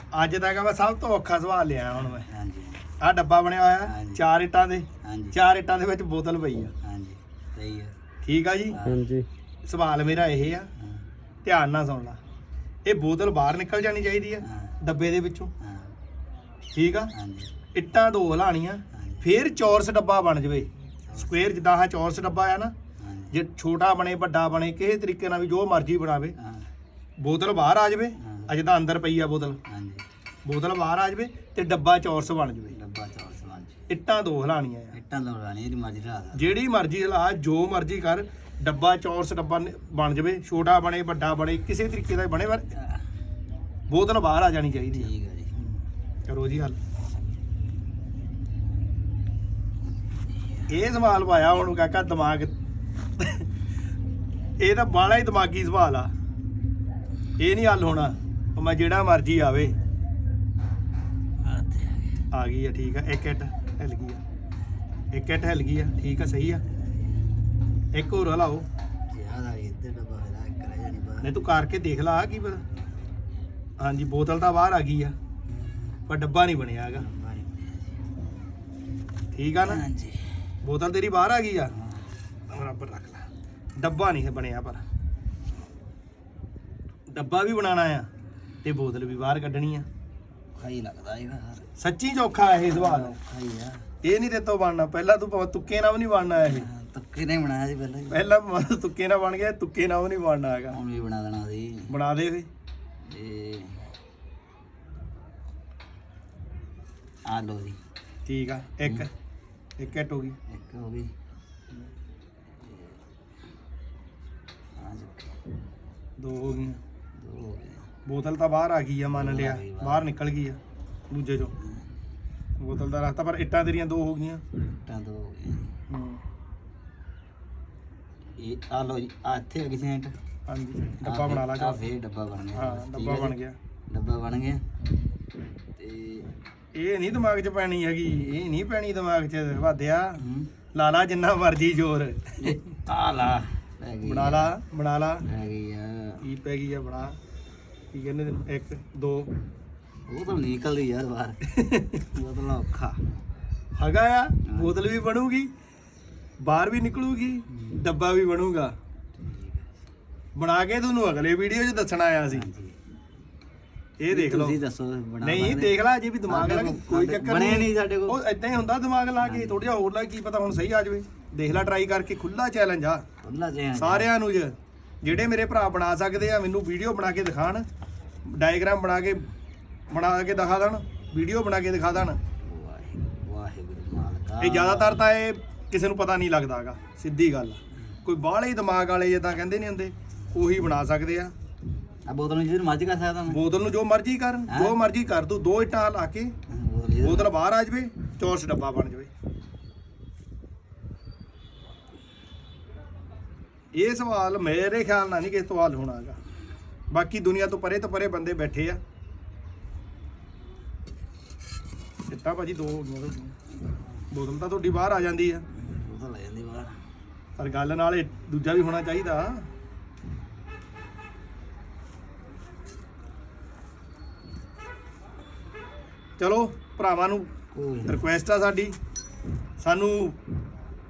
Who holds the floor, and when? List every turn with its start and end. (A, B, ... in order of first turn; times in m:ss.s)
0:00.1-0:02.3 A
0:02.1-0:02.9 B
0:03.0-0:06.7 A
0:03.8-0:04.3 B
0:05.0-0:05.4 B
0:06.8-0:08.0 B
0:08.2-0:08.8 A
0:08.7-0:09.2 B
0:09.6-0:10.7 A
0:10.8-0:11.0 B
0:11.4-0:12.2 A
0:12.9-0:15.5 A
0:14.4-0:14.8 B
0:15.6-0:15.9 B
0:16.7-0:17.1 A
0:17.1-0:17.5 B
0:17.8-0:22.7 A
0:18.9-0:19.3 B
0:21.1-0:21.4 B
0:23.0-0:23.4 B
0:23.3-0:26.4 A
0:26.4-0:26.7 B
0:27.2-0:29.6 A
0:28.2-0:28.5 B
0:29.7-0:30.0 B
0:30.5-0:32.8 A
0:32.7-0:33.8 B
0:33.9-0:34.9 A
0:34.9-0:36.6 B
0:36.4-0:42.7 A
0:42.8-0:43.0 B
0:43.9-0:45.7 A
0:44.9-0:45.6 B
0:46.3-0:46.8 A
0:50.7-0:52.5 A
0:53.2-0:53.5 A
0:54.6-0:56.1 A
0:57.4-0:59.7 A
1:01.4-1:02.2 B
1:02.3-1:04.2 A
1:05.1-1:06.6 A
1:06.7-1:07.1 B
1:07.9-1:08.7 A
1:09.1-1:11.3 B
1:11.2-1:12.6 A
1:13.8-1:15.2 A
1:15.5-1:16.0 B
1:16.1-1:17.0 A
1:16.9-1:18.0 B
1:19.3-1:19.8 A
1:19.6-1:20.3 B
1:20.6-1:21.7 A
1:21.7-1:22.1 B
1:22.5-1:24.8 A
1:27.1-1:28.1 A
1:28.6-1:29.9 A
1:30.6-1:31.7 B
1:31.8-1:33.2 A
1:32.7-1:33.8 B
1:34.0-1:36.7 A
1:36.4-1:38.2 B
1:38.1-1:40.8 A
1:40.7-1:41.9 B
1:41.9-1:42.5 A
1:43.0-1:43.8 B
1:47.2-1:47.8 B
1:48.3-1:49.1 A
1:49.8-1:50.4 A
1:50.5-1:51.1 B
1:52.6-1:53.0 B
1:54.8-1:55.3 B
1:56.2-1:56.8 A
1:57.2-1:57.9 B
1:58.0-2:00.6 A
1:59.1-2:00.1 B
2:01.1-2:01.5 A
2:01.6-2:02.0 B
2:02.6-2:04.4 A
2:04.8-2:05.7 B
2:05.9-2:06.2 A
2:08.4-2:10.2 B
2:10.5-2:11.8 A
2:11.0-2:14.6 B
2:12.6-2:13.6 A
2:15.8-2:16.3 B
2:16.8-2:20.2 A
2:20.2-2:20.5 B
2:20.7-2:22.8 A
2:22.4-2:24.6 B
2:24.0-2:25.3 A
2:25.2-2:26.2 B
2:26.2-2:27.2 A
2:27.9-2:29.3 A
2:30.1-2:31.4 B
2:31.5-2:32.0 A
2:32.0-2:33.0 B
2:33.8-2:35.5 A
2:34.5-2:34.8 B
2:36.4-2:38.7 A
2:37.5-2:37.8 B
2:39.2-2:39.7 B
2:40.4-2:42.5 A
2:42.3-2:42.8 B
2:44.0-2:44.6 A
2:44.1-2:48.2 B
2:45.2-2:53.0 A
2:49.2-2:49.7 B
2:53.2-2:54.1 B
2:53.8-2:57.6 A
2:58.3-2:59.3 A
2:59.9-3:02.2 A
3:02.4-3:05.0 B
3:04.4-3:11.3 A
3:12.1-3:13.4 B
3:13.3-3:16.3 A
3:14.5-3:14.8 B
3:16.5-3:17.4 B
3:17.0-3:19.1 A
3:23.8-3:26.2 A
3:26.9-3:28.8 A
3:32.1-3:33.4 A
3:34.1-3:35.4 A
3:35.5-3:36.8 B
3:37.4-3:39.5 A
3:46.2-3:47.3 A
3:47.5-3:48.0 B
3:47.9-3:48.7 A
3:49.6-3:50.2 A